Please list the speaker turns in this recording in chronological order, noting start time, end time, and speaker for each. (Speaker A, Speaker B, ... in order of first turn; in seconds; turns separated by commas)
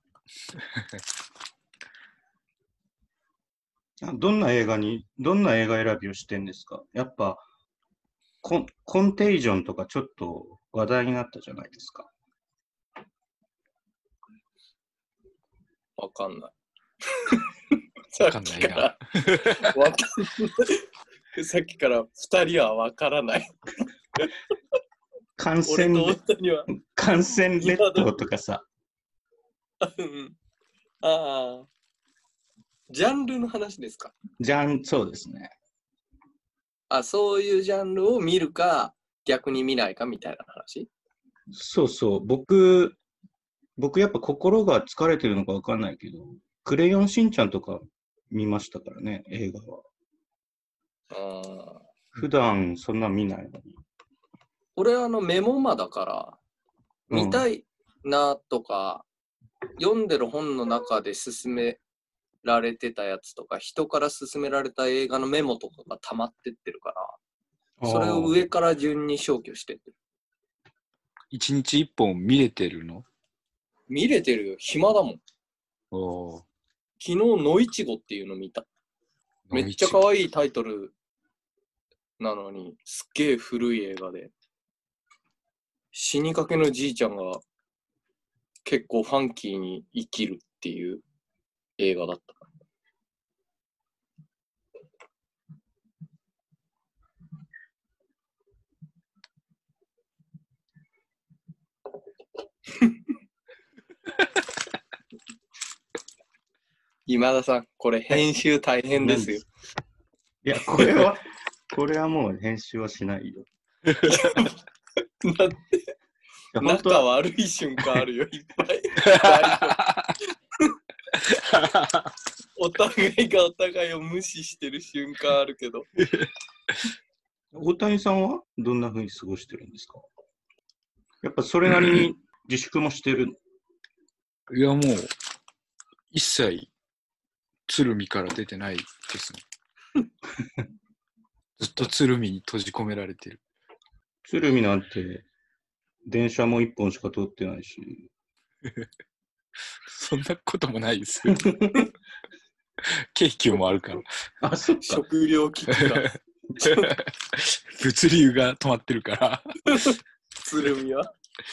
Speaker A: 0.6-1.0, Speaker B: 4.0-7.5, Speaker B: 8.4-12.1, Speaker C: 16.0-16.5, Speaker C: 17.1-17.5, Speaker C: 18.1-23.5, Speaker A: 18.2-19.8, Speaker B: 25.4-26.2, Speaker C: 25.6-26.7, Speaker B: 26.7-28.6, Speaker C: 27.6-28.1, Speaker C: 29.8-30.4, Speaker C: 31.0-31.7, Speaker C: 32.9-34.1, Speaker B: 34.4-35.5, Speaker C: 36.9-40.9, Speaker B: 41.5-43.0, Speaker B: 43.8-49.8, Speaker C: 51.1-51.8, Speaker B: 52.1-53.8, Speaker C: 54.8-56.4, Speaker B: 57.1-57.5, Speaker C: 57.1-59.0, Speaker C: 59.8-61.8, Speaker C: 62.4-67.2, Speaker B: 67.8-68.4, Speaker C: 67.8-69.9, Speaker A: 71.3-73.0, Speaker C: 73.9-75.2, Speaker A: 75.9-76.4, Speaker C: 77.0-78.7, Speaker A: 79.5-80.0, Speaker C: 79.5-80.9, Speaker C: 82.2-84.3, Speaker C: 85.9-87.4, Speaker C: 88.6-91.0, Speaker C: 91.8-92.5, Speaker C: 107.0-109.4, Speaker B: 109.0-109.4, Speaker B: 110.4-113.5, Speaker A: 113.9-114.2, Speaker C: 114.0-114.6, Speaker C: 115.2-115.9, Speaker B: 116.5-117.1, Speaker C: 116.6-119.8, Speaker A: 119.0-120.2, Speaker A: 121.2-122.1, Speaker C: 122.5-125.9, Speaker A: 126.0-126.9, Speaker B: 127.5-130.0, Speaker B: 131.2-133.4, Speaker A: 134.5-135.1, Speaker A: 136.1-136.7, Speaker A: 137.7-139.4, Speaker A: 141.6-143.4, Speaker B: 144.2-145.3, Speaker B: 146.1-148.1, Speaker A: 149.8-151.5, Speaker B: 151.2-151.9, Speaker A: 152.8-154.1, Speaker B: 154.4-155.0, Speaker C: 154.8-156.1, Speaker A: 156.6-159.9, Speaker C: 156.6-156.9, Speaker C: 159.7-161.1